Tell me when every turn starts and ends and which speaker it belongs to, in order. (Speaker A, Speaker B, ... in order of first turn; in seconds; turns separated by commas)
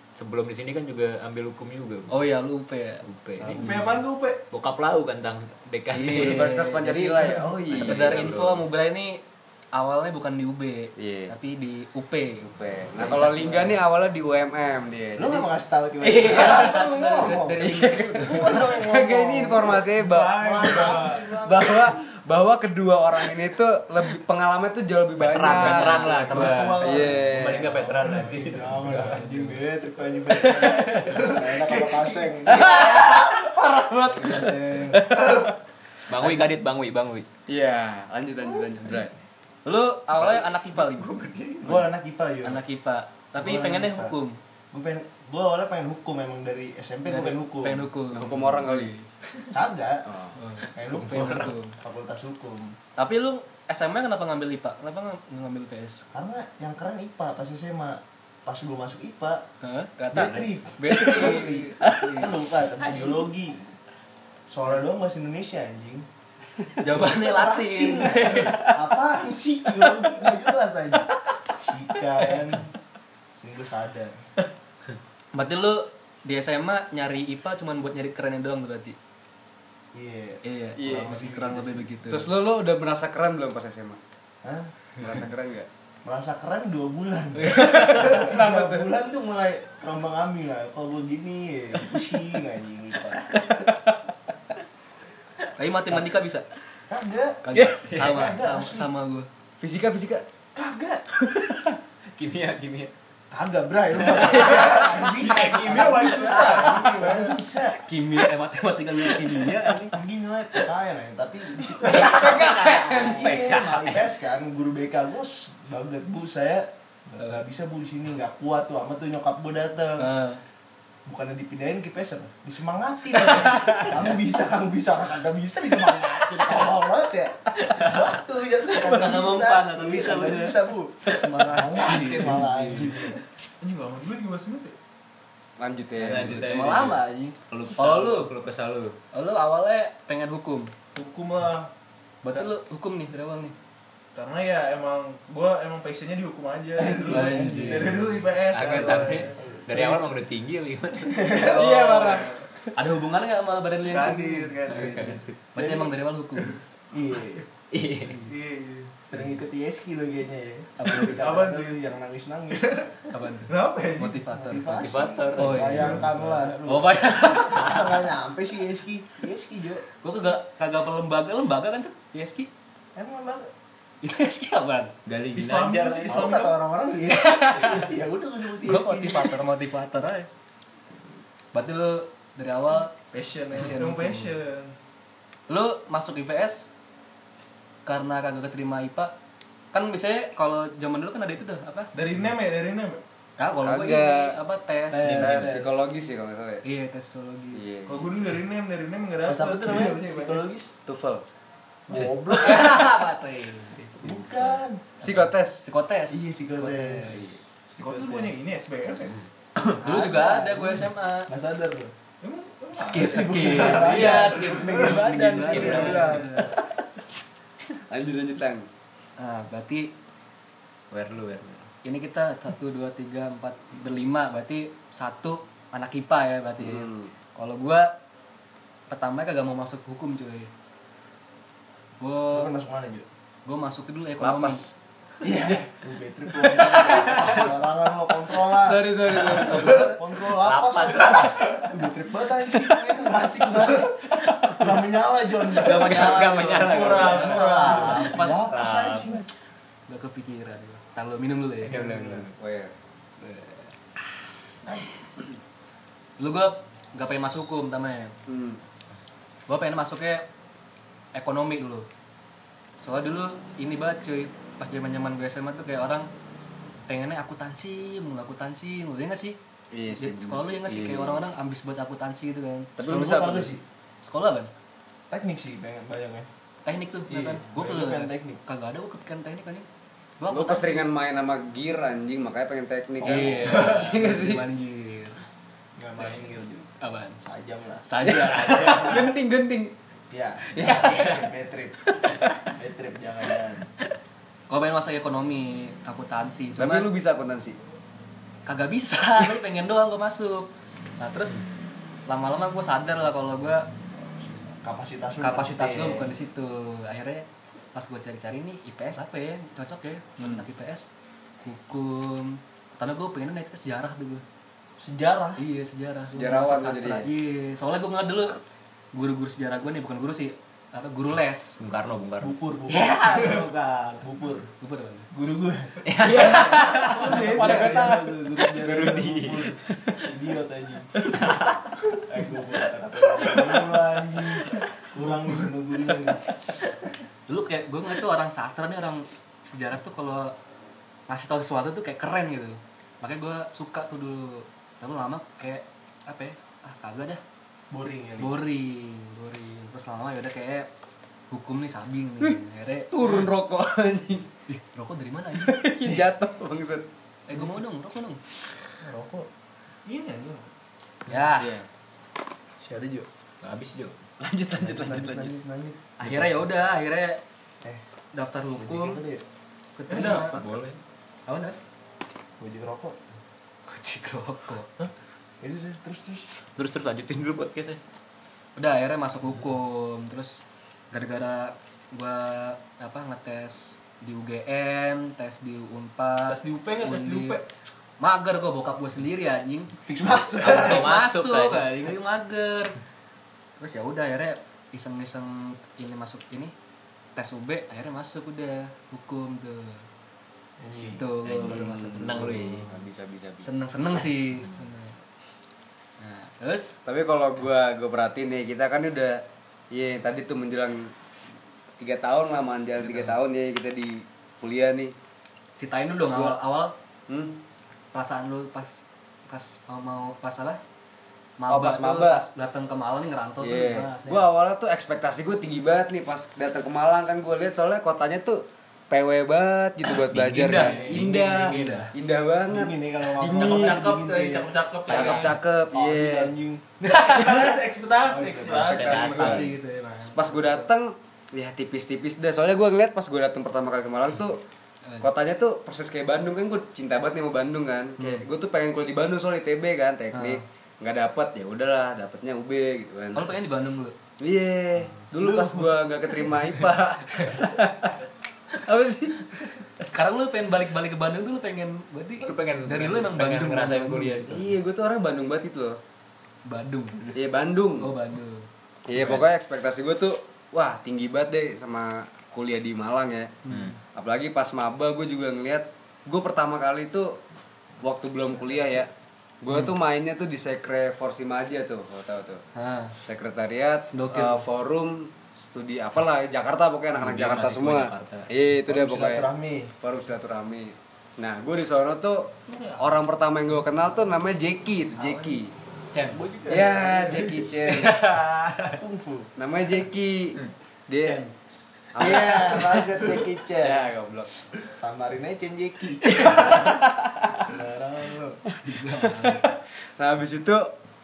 Speaker A: 0.2-2.2, Speaker B: 2.1-4.0, Speaker A: 3.0-6.5, Speaker C: 3.5-4.5, Speaker B: 5.9-9.2, Speaker D: 6.0-8.3, Speaker A: 7.7-8.7, Speaker B: 9.7-13.8, Speaker D: 11.0-11.3, Speaker D: 12.5-15.5, Speaker E: 15.2-17.6, Speaker B: 16.0-18.6, Speaker D: 17.6-26.1, Speaker E: 18.1-21.9, Speaker C: 20.0-21.2, Speaker A: 25.2-29.0, Speaker B: 25.5-26.9, Speaker C: 26.2-28.3, Speaker D: 26.8-27.8, Speaker E: 27.7-35.1, Speaker B: 28.6-29.6, Speaker B: 30.5-31.2, Speaker C: 30.6-32.4, Speaker D: 32.5-35.6, Speaker A: 36.1-37.3, Speaker D: 37.5-39.1, Speaker B: 39.6-41.1, Speaker A: 40.3-41.9, Speaker E: 41.6-42.6, Speaker B: 42.4-44.4, Speaker E: 43.4-44.2, Speaker E: 44.7-47.9, Speaker B: 47.0-49.1, Speaker D: 48.1-48.9, Speaker E: 49.5-50.0, Speaker D: 50.1-50.4, Speaker B: 50.4-51.8, Speaker E: 50.7-52.8, Speaker A: 50.8-51.5, Speaker B: 53.0-56.0, Speaker E: 56.1-59.4, Speaker B: 59.6-62.4, Speaker E: 60.1-63.6, Speaker E: 64.5-66.1, Speaker B: 66.8-68.8, Speaker E: 66.9-72.7, Speaker E: 73.4-74.2, Speaker B: 75.3-79.0, Speaker E: 79.9-82.0, Speaker B: 80.4-82.3, Speaker D: 80.8-81.1, Speaker D: 82.1-84.0, Speaker E: 84.4-85.1, Speaker D: 85.0-85.7, Speaker E: 86.0-93.3, Speaker B: 87.3-88.3, Speaker D: 87.6-88.9, Speaker D: 93.3-93.9, Speaker B: 95.6-96.5, Speaker E: 96.9-97.4, Speaker B: 97.4-99.3, Speaker A: 97.9-98.3, Speaker E: 98.0-98.9, Speaker D: 99.6-100.2, Speaker E: 100.5-101.1, Speaker D: 101.2-101.7, Speaker A: 102.2-102.9, Speaker E: 103.3-107.8, Speaker C: 105.2-107.4, Speaker B: 107.7-109.9, Speaker E: 109.4-120.1, Speaker D: 111.8-113.7, Speaker B: 111.8-113.6, Speaker A: 113.7-114.0, Speaker B: 120.0-120.4, Speaker E: 121.0-133.2, Speaker B: 128.7-133.0, Speaker C: 133.6-134.8, Speaker D: 135.6-136.5, Speaker A: 136.0-139.0, Speaker B: 136.1-138.3, Speaker B: 139.1-140.7, Speaker C: 140.9-141.7, Speaker B: 142.2-143.6, Speaker C: 144.2-149.4, Speaker E: 146.8-150.1, Speaker B: 147.1-147.9, Speaker A: 148.5-151.3, Speaker E: 151.1-151.7, Speaker B: 151.3-156.6, Speaker D: 151.4-152.4, Speaker C: 153.8-155.2, Speaker A: 154.7-155.3, Speaker E: 155.6-155.9, Speaker E: 156.9-157.5, Speaker A: 157.7-158.2, Speaker C: 158.2-158.9, Speaker E: 159.1-162.8, Speaker B: 160.8-161.2, Speaker C: 161.2-161.8, Speaker C: 162.6-163.0, Speaker B: 163.1-166.0, Speaker C: 163.5-164.2, Speaker E: 164.3-169.8, Speaker A: 164.8-166.5, Speaker C: 165.7-166.0, Speaker B: 166.6-168.1, Speaker B: 170.0-172.5, Speaker E: 172.9-173.5, Speaker B: 174.0-174.9, Speaker A: 175.1-176.3, Speaker C: 175.3-176.6, Speaker E: 176.1-179.3, Speaker B: 177.1-177.9, Speaker B: 178.6-180.3, Speaker B: 181.5-182.9, Speaker C: 183.1-184.7, Speaker B: 183.5-184.3, Speaker B: 185.5-186.7, Speaker B: 187.9-189.1, Speaker B: 189.7-191.9, Speaker C: 191.9-193.0, Speaker B: 193.4-195.3, Speaker D: 193.6-194.4, Speaker E: 194.9-195.8, Speaker A: 195.0-195.6, Speaker D: 195.1-196.6, Speaker B: 196.6-197.8, Speaker D: 197.5-198.1, Speaker C: 197.8-200.4, Speaker E: 199.2-200.7, Speaker D: 200.9-201.2, Speaker E: 201.9-202.9, Speaker B: 202.0-204.1, Speaker E: 204.0-205.1, Speaker D: 205.0-205.6, Speaker B: 205.6-207.2, Speaker E: 206.1-208.3, Speaker D: 207.1-207.4, Speaker C: 207.8-209.2, Speaker E: 209.7-211.9, Speaker B: 209.8-211.3, Speaker C: 212.2-215.0, Speaker B: 212.8-216.6, Speaker E: 212.9-216.7, Speaker A: 213.7-214.2, Speaker A: 215.4-216.3, Speaker D: 217.9-218.7, Speaker B: 219.2-219.9, Speaker A: 220.9-221.7, Speaker B: 221.8-227.9, Speaker D: 226.6-227.1, Speaker B: 228.9-230.5, Speaker B: 232.0-232.6, Speaker E: 232.3-233.1, Speaker B: 233.5-234.7, Speaker E: 234.2-234.7, Speaker E: 235.2-249.3, Speaker B: 236.6-237.6, Speaker D: 237.0-237.3, Speaker D: 238.5-239.9, Speaker B: 239.5-240.0, Speaker A: 240.2-241.6, Speaker A: 244.1-244.6, Speaker A: 245.5-249.2, Speaker B: 245.8-248.5, Speaker C: 245.9-247.7, Speaker B: 249.9-251.8, Speaker A: 251.6-252.3, Speaker E: 251.7-252.3, Speaker D: 252.4-252.7, Speaker A: 253.2-253.7, Speaker B: 256.2-258.1, Speaker D: 258.3-258.6, Speaker B: 259.5-260.2, Speaker B: 261.1-261.9, Speaker B: 262.8-266.1, Speaker B: 266.9-269.4, Speaker D: 269.7-271.2, Speaker B: 270.0-272.8, Speaker D: 272.8-273.6, Speaker E: 272.8-273.6, Speaker B: 274.0-274.5, Speaker E: 275.1-276.3, Speaker B: 276.6-279.7, Speaker E: 277.1-278.4, Speaker B: 280.2-280.9, Speaker D: 280.3-284.4, Speaker B: 283.0-285.2, Speaker E: 283.1-283.8, Speaker E: 285.8-286.7, Speaker B: 286.8-287.2, Speaker E: 287.2-287.8, Speaker B: 287.9-289.1, Speaker D: 288.0-289.7, Speaker E: 290.1-293.7, Speaker D: 290.5-291.0, Speaker A: 290.7-291.1, Speaker B: 290.7-291.2, Speaker B: 294.5-296.9, Speaker D: 296.6-297.6, Speaker B: 298.5-301.4, Speaker B: 302.1-303.7, Speaker E: 304.6-306.2, Speaker B: 305.2-310.9, Speaker B: 311.4-314.2, Speaker E: 314.8-315.4, Speaker B: 315.4-318.4, Speaker D: 316.1-317.1, Speaker B: 318.9-321.6, Speaker A: 321.6-322.4, Speaker E: 322.2-323.4, Speaker B: 322.7-324.1, Speaker E: 324.0-324.5, Speaker B: 324.6-325.1, Speaker E: 325.1-329.6, Speaker A: 325.9-327.2, Speaker D: 326.0-328.1, Speaker B: 326.2-327.8, Speaker A: 328.4-330.1, Speaker E: 330.1-330.9, Speaker A: 331.0-331.8, Speaker E: 332.0-336.2, Speaker A: 333.2-333.6, Speaker B: 337.3-340.4, Speaker B: 341.1-347.2, Speaker E: 347.7-348.4, Speaker B: 348.2-350.7, Speaker B: 351.3-353.3, Speaker D: 352.9-354.3, Speaker B: 354.5-355.6, Speaker D: 355.4-356.9, Speaker B: 357.3-358.2, Speaker E: 358.8-359.3, Speaker C: 359.9-360.5, Speaker B: 361.1-361.5, Speaker D: 361.4-361.7, Speaker E: 362.6-363.1, Speaker A: 363.4-364.0, Speaker D: 364.2-365.3, Speaker E: 364.6-365.9, Speaker B: 366.0-367.2, Speaker A: 366.1-366.3, Speaker B: 368.1-369.0, Speaker E: 368.6-369.2, Speaker B: 369.8-370.4, Speaker C: 369.9-370.3, Speaker E: 370.0-370.4, Speaker A: 370.2-370.8, Speaker B: 371.3-371.6, Speaker E: 372.4-373.0, Speaker B: 373.7-374.7, Speaker E: 375.4-376.3, Speaker A: 376.6-377.8, Speaker B: 378.6-387.4, Speaker C: 386.3-387.5, Speaker B: 388.0-392.8, Speaker E: 389.9-390.9, Speaker A: 390.4-391.8, Speaker B: 393.6-396.5, Speaker B: 397.2-399.8, Speaker E: 400.6-401.0, Speaker B: 400.8-402.4, Speaker A: 401.2-402.7, Speaker D: 401.3-403.5, Speaker B: 403.4-405.0, Speaker B: 406.0-406.8, Speaker D: 406.9-410.9, Speaker D: 411.8-414.9, Speaker B: 412.8-413.1, Speaker B: 415.6-416.7, Speaker D: 416.1-416.4, Speaker D: 417.1-417.4, Speaker B: 417.9-420.6, Speaker B: 421.4-424.2, Speaker D: 421.5-422.2, Speaker D: 423.4-433.9, Speaker A: 430.0-431.9, Speaker B: 430.4-431.9, Speaker E: 430.5-431.1, Speaker E: 432.5-434.5, Speaker C: 433.3-435.4, Speaker D: 434.9-436.3, Speaker E: 435.7-436.6, Speaker C: 436.8-439.4, Speaker B: 436.9-437.2, Speaker E: 438.1-439.1, Speaker D: 438.5-439.4, Speaker A: 438.5-439.5, Speaker B: 438.9-440.7, Speaker D: 440.0-444.4, Speaker D: 445.0-453.3, Speaker B: 448.0-448.2, Speaker B: 450.1-450.4, Speaker B: 453.1-453.9, Speaker D: 454.2-457.9, Speaker C: 455.2-455.7, Speaker D: 458.6-459.5, Speaker B: 459.8-464.2, Speaker A: 462.2-464.5, Speaker D: 464.3-465.8, Speaker B: 466.5-467.2, Speaker D: 467.1-467.9, Speaker B: 467.8-468.5, Speaker D: 468.9-473.4, Speaker A: 469.0-469.3, Speaker B: 473.5-473.8, Speaker A: 473.5-473.7, Speaker D: 473.9-477.2, Speaker D: 477.8-478.9, Speaker D: 479.4-482.4, Speaker B: 482.6-482.9, Speaker D: 483.0-489.3, Speaker B: 483.9-484.4, Speaker A: 486.9-488.3, Speaker E: 488.7-489.7, Speaker D: 489.8-495.5, Speaker C: 492.5-492.9, Speaker B: 495.0-495.4, Speaker B: 495.9-496.2, Speaker E: 496.1-497.5, Speaker D: 496.5-498.0, Speaker B: 497.7-498.8, Speaker E: 498.8-499.3, Speaker D: 499.4-501.3, Speaker D: 501.9-503.0, Speaker E: 502.0-503.9, Speaker D: 503.6-504.3, Speaker E: 504.6-506.8, Speaker D: 506.1-507.4, Speaker E: 507.4-508.4, Speaker D: 508.5-510.7, Speaker B: 508.6-509.5